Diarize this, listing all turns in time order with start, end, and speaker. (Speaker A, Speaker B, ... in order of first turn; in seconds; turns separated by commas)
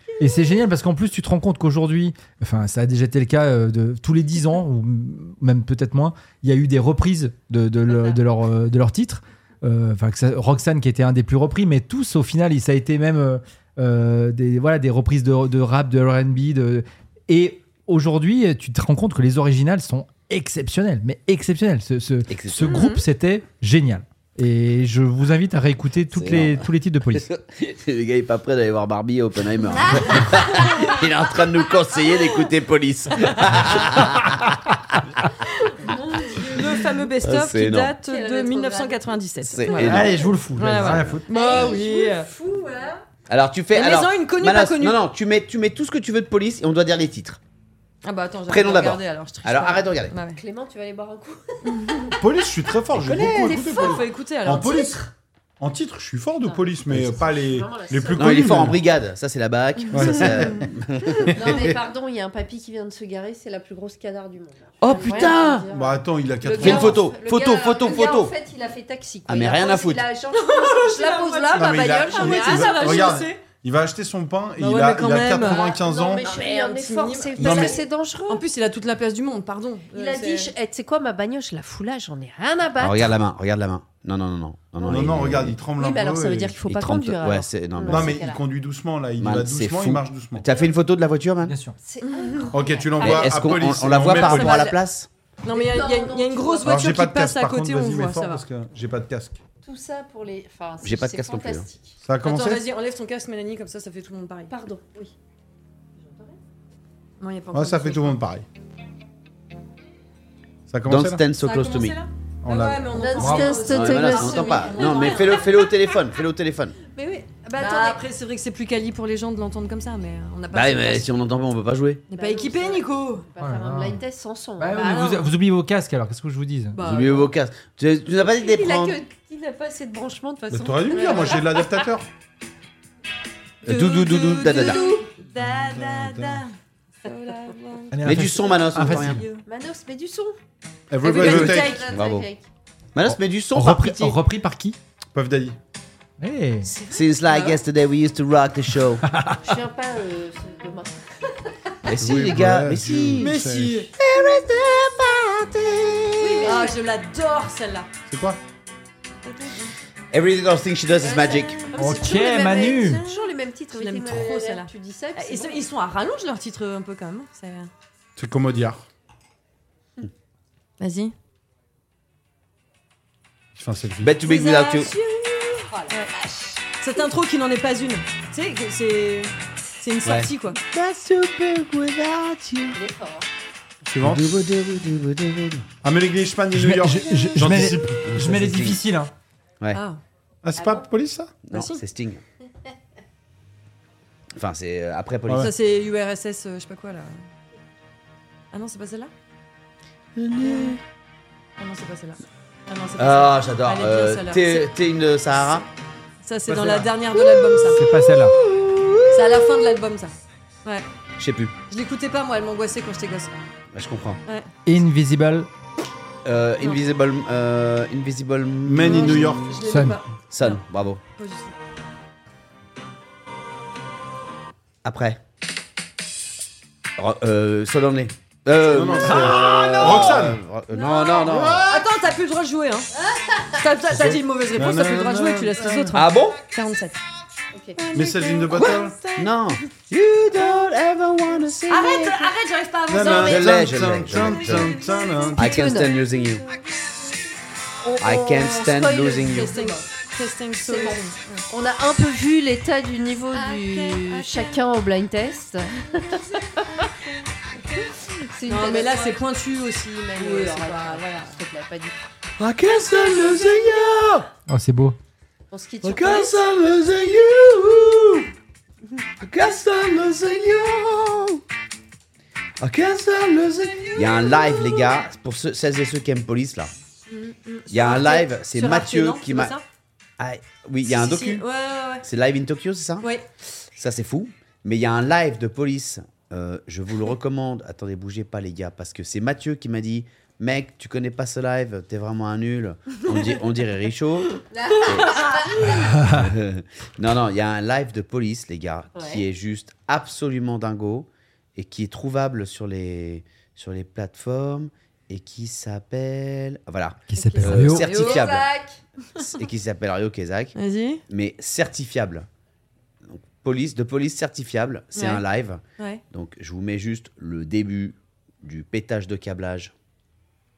Speaker A: 0.2-27.3, Speaker B: 22.3-22.9, Speaker C: 22.7-23.0, Speaker B: 26.1-35.0, Speaker D: 29.8-30.9, Speaker C: 30.5-31.0, Speaker C: 33.2-33.4, Speaker D: 35.8-37.0, Speaker C: 36.3-42.3, Speaker B: 37.2-38.0, Speaker D: 38.1-40.3, Speaker B: 39.4-41.8, Speaker A: 39.8-41.3, Speaker D: 41.3-43.0, Speaker B: 43.3-47.4, Speaker C: 43.7-45.0, Speaker C: 48.0-50.4, Speaker B: 48.5-50.2, Speaker D: 50.3-52.2, Speaker C: 51.7-52.1, Speaker E: 52.2-54.9, Speaker D: 53.0-55.1, Speaker B: 53.1-53.5, Speaker C: 53.5-55.0, Speaker E: 55.6-58.8, Speaker D: 56.4-58.7, Speaker B: 58.2-61.7, Speaker E: 59.9-60.7, Speaker D: 60.0-60.3, Speaker E: 61.2-61.8, Speaker D: 61.3-73.2, Speaker B: 64.8-65.7, Speaker C: 64.9-65.4, Speaker E: 65.7-67.1, Speaker B: 66.6-68.3, Speaker B: 69.3-70.1, Speaker C: 70.3-73.4, Speaker E: 71.5-76.3, Speaker C: 74.6-80.5, Speaker D: 75.7-78.4, Speaker E: 77.4-77.8, Speaker D: 79.9-83.1, Speaker B: 82.8-85.6, Speaker E: 84.9-86.6, Speaker D: 85.7-88.4, Speaker B: 86.7-88.3, Speaker E: 87.8-90.5, Speaker B: 89.2-91.5, Speaker A: 91.5-91.8, Speaker D: 91.8-93.4, Speaker C: 92.0-92.5, Speaker E: 92.5-94.7, Speaker B: 93.0-95.1, Speaker C: 94.1-94.8, Speaker C: 95.4-98.4, Speaker D: 95.5-96.8, Speaker E: 96.6-99.4, Speaker D: 99.6-102.0, Speaker B: 100.8-101.7, Speaker E: 102.0-102.6, Speaker C: 102.2-104.5, Speaker D: 104.5-105.1, Speaker D: 106.0-106.4, Speaker C: 107.2-108.2, Speaker E: 107.5-108.5, Speaker E: 110.7-111.2, Speaker B: 110.9-112.0, Speaker C: 111.4-115.7, Speaker E: 112.4-113.1, Speaker D: 112.9-115.4, Speaker A: 113.2-113.6, Speaker B: 113.6-116.8, Speaker D: 116.9-118.0, Speaker C: 117.5-121.1, Speaker B: 120.5-122.0, Speaker C: 122.1-123.3, Speaker D: 122.2-125.2, Speaker A: 123.4-124.0, Speaker A: 124.6-126.8, Speaker C: 124.7-125.2, Speaker C: 126.8-127.3, Speaker B: 126.8-129.0, Speaker D: 128.2-131.9, Speaker E: 130.5-132.1, Speaker B: 133.6-134.8, Speaker C: 133.7-136.5, Speaker D: 134.3-135.1, Speaker E: 135.6-136.4, Speaker C: 137.1-139.4, Speaker A: 137.9-139.2, Speaker B: 138.0-139.3, Speaker D: 139.5-140.4, Speaker E: 140.9-141.9, Speaker C: 141.0-141.9, Speaker D: 141.1-142.4, Speaker B: 141.2-142.3, Speaker B: 142.9-144.2, Speaker A: 143.1-144.8, Speaker E: 145.1-145.6, Speaker A: 146.2-146.7, Speaker B: 146.9-149.1, Speaker C: 147.3-147.6, Speaker A: 149.1-149.4, Speaker D: 149.4-151.0, Speaker B: 151.9-153.4, Speaker E: 152.0-153.9, Speaker A: 153.2-153.9, Speaker B: 154.0-156.7, Speaker D: 156.2-156.8, Speaker C: 156.4-157.9, Speaker E: 158.1-158.4, Speaker C: 159.3-159.7, Speaker B: 160.1-161.6, Speaker D: 161.0-165.7, Speaker A: 161.8-163.0, Speaker C: 162.0-167.7, Speaker E: 168.2-168.8, Speaker C: 170.8-171.2, Speaker E: 173.6-174.1, Speaker B: 174.0-174.9, Speaker C: 174.2-176.1, Speaker D: 175.7-176.7, Speaker C: 176.8-180.6, Speaker B: 180.0-182.8, Speaker D: 182.7-183.3, Speaker E: 183.8-184.3, Speaker B: 184.0-185.7, Speaker E: 185.8-188.0, Speaker A: 186.5-189.1, Speaker B: 188.0-188.8, Speaker C: 189.7-190.0, Speaker E: 190.4-191.4, Speaker D: 190.6-190.9, Speaker B: 191.4-192.2, Speaker C: 191.5-191.8, Speaker B: 194.4-195.5, Speaker C: 195.4-197.2, Speaker C: 198.5-199.1, Speaker B: 200.2-200.8, Speaker C: 200.4-200.8, Speaker C: 201.6-204.7, Speaker B: 203.0-205.7, Speaker C: 206.2-207.8, Speaker E: 206.5-207.0, Speaker B: 207.2-209.7, Speaker A: 207.7-208.4, Speaker C: 209.1-210.9, Speaker B: 211.2-211.5, Speaker C: 211.7-213.4, Speaker B: 213.7-214.2, Speaker A: 214.7-215.5, Speaker B: 216.2-219.6, Speaker E: 218.6-219.6, Speaker C: 218.8-220.6, Speaker A: 219.6-220.0, Speaker B: 220.3-221.0, Speaker C: 221.2-221.6, Speaker B: 224.8-225.2, Speaker B: 227.0-231.8, Speaker E: 228.7-230.4, Speaker C: 229.1-230.0, Speaker C: 230.7-232.9, Speaker E: 231.3-231.8, Speaker D: 232.9-233.7, Speaker C: 233.6-237.0, Speaker B: 233.9-234.2, Speaker E: 234.5-235.9, Speaker B: 235.9-236.4, Speaker D: 237.5-237.8, Speaker C: 237.8-239.6, Speaker E: 237.9-239.0, Speaker B: 238.5-242.3, Speaker C: 241.7-245.9, Speaker E: 242.9-245.7, Speaker B: 243.1-244.8, Speaker B: 245.3-246.4, Speaker D: 245.4-245.9, Speaker D: 247.8-249.8, Speaker B: 248.0-249.6, Speaker C: 249.2-251.4, Speaker D: 250.6-256.9, Speaker C: 253.3-254.6, Speaker D: 257.8-259.2, Speaker C: 258.5-261.4, Speaker D: 259.9-262.0, Speaker B: 262.4-264.3, Speaker A: 264.5-265.0, Speaker D: 265.5-266.4, Speaker B: 265.8-268.3, Speaker B: 269.2-271.4, Speaker B: 272.6-276.7, Speaker C: 273.9-274.4, Speaker C: 277.1-279.6, Speaker B: 277.7-279.6, Speaker B: 280.2-281.5, Speaker C: 280.8-282.1, Speaker B: 282.0-283.1, Speaker C: 283.0-283.3, Speaker B: 283.8-308.5, Speaker D: 294.5-295.9, Speaker C: 294.8-295.5, Speaker A: 295.9-296.3, Speaker D: 298.9-299.2, Speaker A: 307.1-307.9, Speaker D: 307.2-309.3, Speaker C: 307.4-308.4, Speaker B: 309.3-310.6, Speaker C: 310.6-311.0, Speaker B: 311.1-312.3, Speaker B: 313.0-319.7, Speaker C: 314.9-315.2